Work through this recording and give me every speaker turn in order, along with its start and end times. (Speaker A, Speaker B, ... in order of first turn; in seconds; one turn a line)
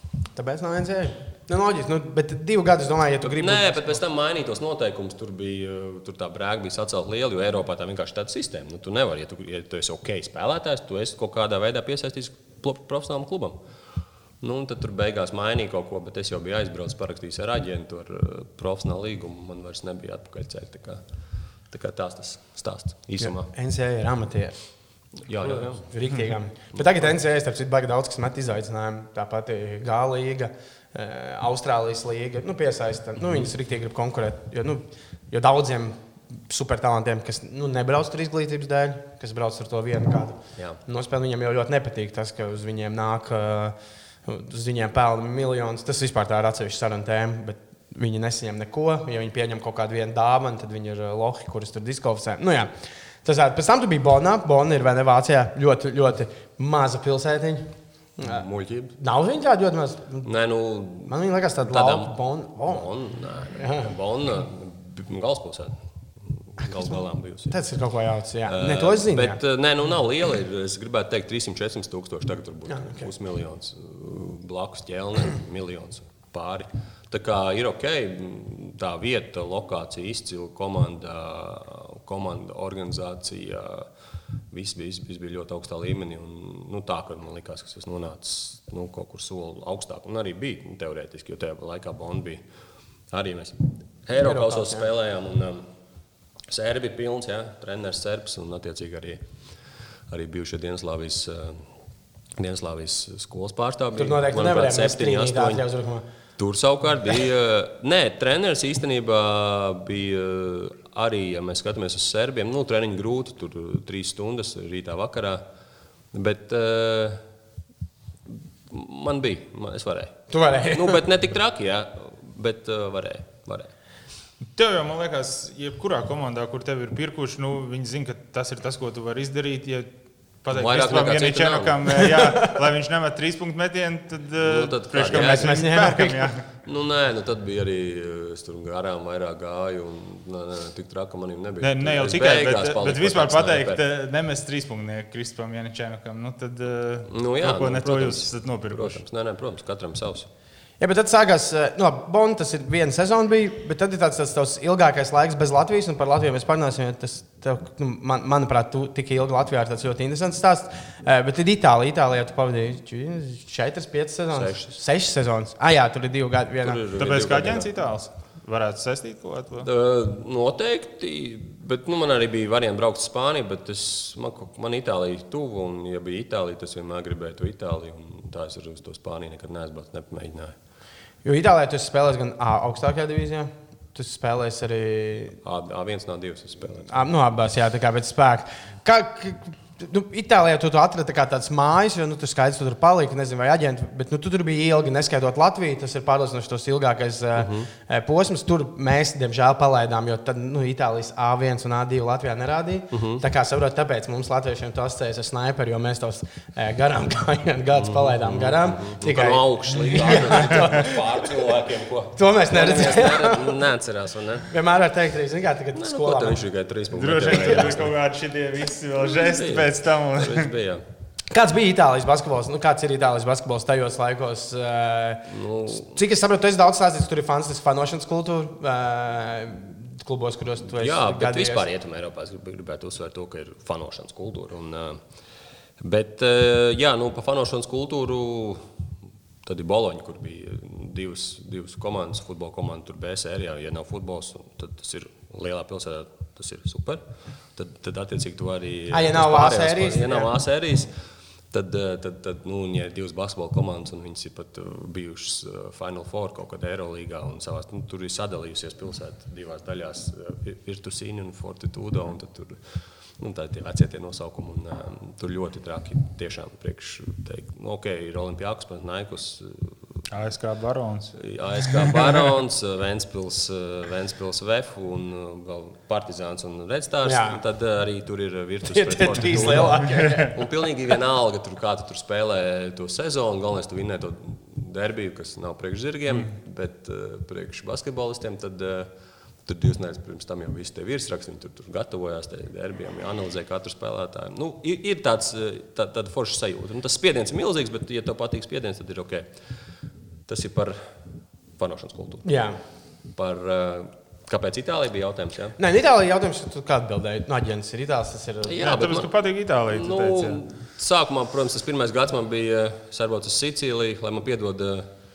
Speaker A: 0.4-4.0
Speaker B: 3.2-13.6
Speaker B: 14.4-21.0
Speaker B: 21.7-23.5
Speaker A: 23.2-24.6
Speaker B: 25.2-25.9
Speaker A: 25.4-52.7
Speaker A: 53.2-58.5
Speaker B: 58.2-59.0
Speaker A: 59.0-60.3
Speaker B: 60.2-62.1
Speaker A: 61.1-62.9
Speaker B: 62.7-67.6
Speaker A: 63.6-63.9
Speaker A: 67.5-69.4
Speaker B: 68.5-83.9
Speaker A: 72.7-73.0
Speaker B: 84.5-92.4
Speaker B: 93.1-95.7
Speaker A: 94.2-94.9
Speaker B: 96.5-99.2
Speaker B: 100.1-101.7
Speaker B: 102.4-105.6
Speaker A: 104.0-106.0
Speaker B: 106.4-115.4
Speaker B: 116.1-117.2
Speaker B: 118.7-123.7
Speaker A: 120.3-121.0
Speaker C: 124.5-129.9
Speaker C: 130.4-136.4
Speaker B: 130.5-132.1
Speaker A: 132.0-132.6
Speaker B: 134.4-135.7
Speaker A: 135.1-136.3
Speaker B: 136.6-143.8
Speaker C: 141.6-149.0
Speaker B: 147.1-150.3
Speaker A: 150.8-166.8
Speaker B: 164.3-164.7
Speaker B: 166.6-167.7
Speaker C: 167.0-169.7
Speaker B: 169.6-180.6
Speaker A: 181.2-185.4
Speaker B: 185.4-187.0
Speaker A: 186.9-211.4
Speaker B: 197.4-197.7
Speaker B: 202.9-203.2
Speaker B: 207.8-214.5
Speaker A: 212.2-213.6
Speaker A: 214.5-216.4
Speaker B: 215.8-217.9
Speaker C: 216.9-220.5
Speaker A: 217.3-217.8
Speaker B: 219.0-220.8
Speaker A: 221.3-231.7
Speaker B: 225.3-226.0
Speaker B: 230.6-235.0
Speaker B: 235.8-238.7
Speaker B: 239.4-247.0
Speaker B: 247.6-250.9
Speaker A: 248.9-250.3
Speaker B: 251.5-269.9
Speaker C: 270.1-271.9
Speaker B: 271.2-288.9
Speaker A: 277.1-277.4
Speaker A: 278.7-280.5
Speaker C: 279.4-280.2
Speaker B: 289.4-299.3
Speaker B: 300.3-300.9
Speaker B: 301.6-302.3
Speaker A: 302.2-302.6
Speaker B: 303.1-305.6
Speaker A: 305.6-308.6
Speaker B: 308.4-309.1
Speaker C: 308.6-310.4
Speaker B: 309.7-314.9